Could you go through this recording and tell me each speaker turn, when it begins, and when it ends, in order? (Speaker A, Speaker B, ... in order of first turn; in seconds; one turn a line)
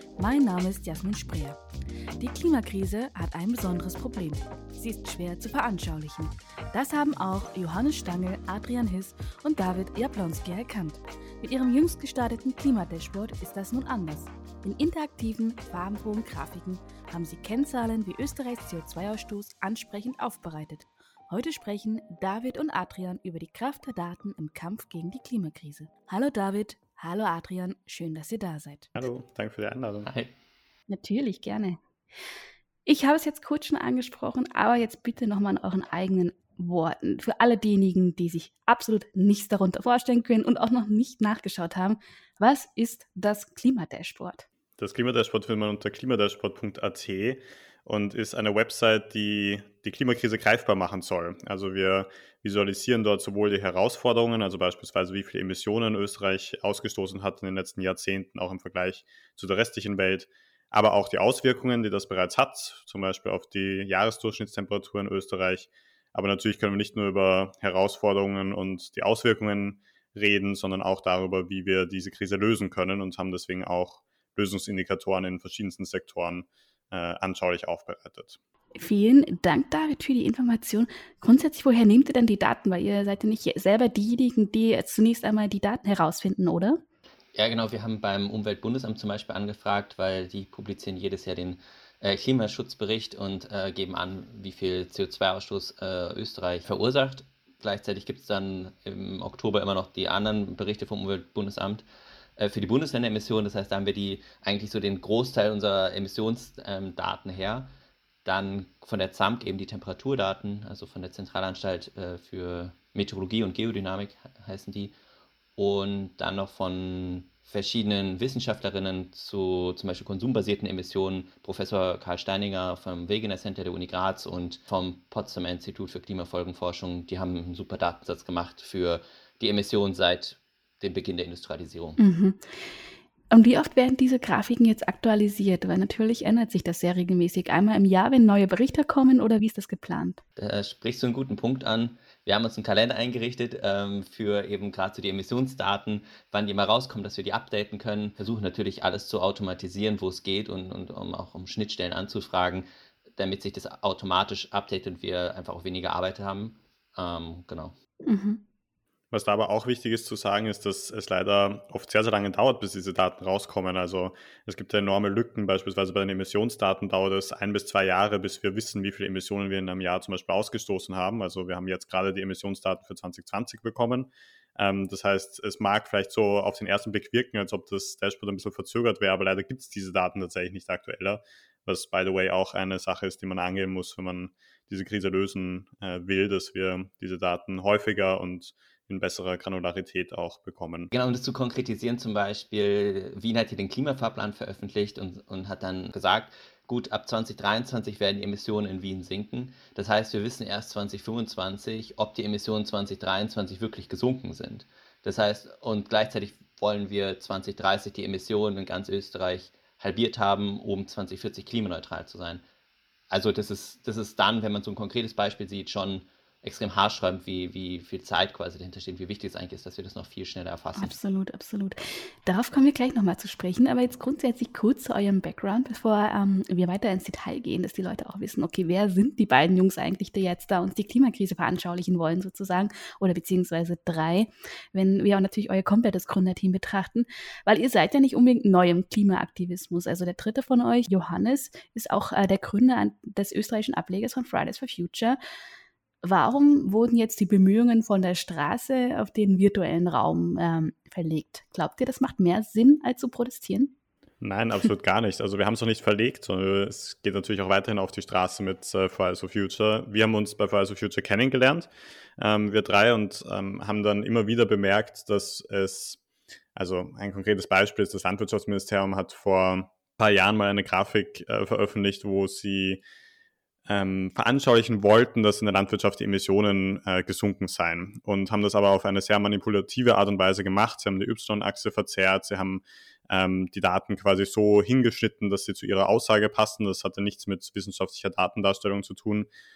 Speaker A: 0.2-1.6
Speaker A: 2.2-28.9
Speaker B: 28.9-30.1
Speaker C: 30.1-30.3
Speaker A: 30.9-31.8
Speaker A: 32.9-44.5
Speaker B: 44.8-78.4
Speaker A: 78.8-86.8
Speaker C: 87.3-101.8
Speaker C: 102.4-107.7
Speaker C: 108.2-114.9
Speaker C: 115.6-132.0
Speaker A: 132.0-132.5
Speaker A: 133.3-140.2
Speaker C: 140.4-157.7
Speaker A: 158.1-158.4
Speaker B: 159.1-190.9
Speaker C: 190.9-212.4
Speaker C: 213.1-220.9
Speaker A: 220.8-245.2
Speaker A: 246.0-253.7
Speaker B: 254.2-266.0
Speaker B: 266.5-272.8
Speaker B: 273.7-289.3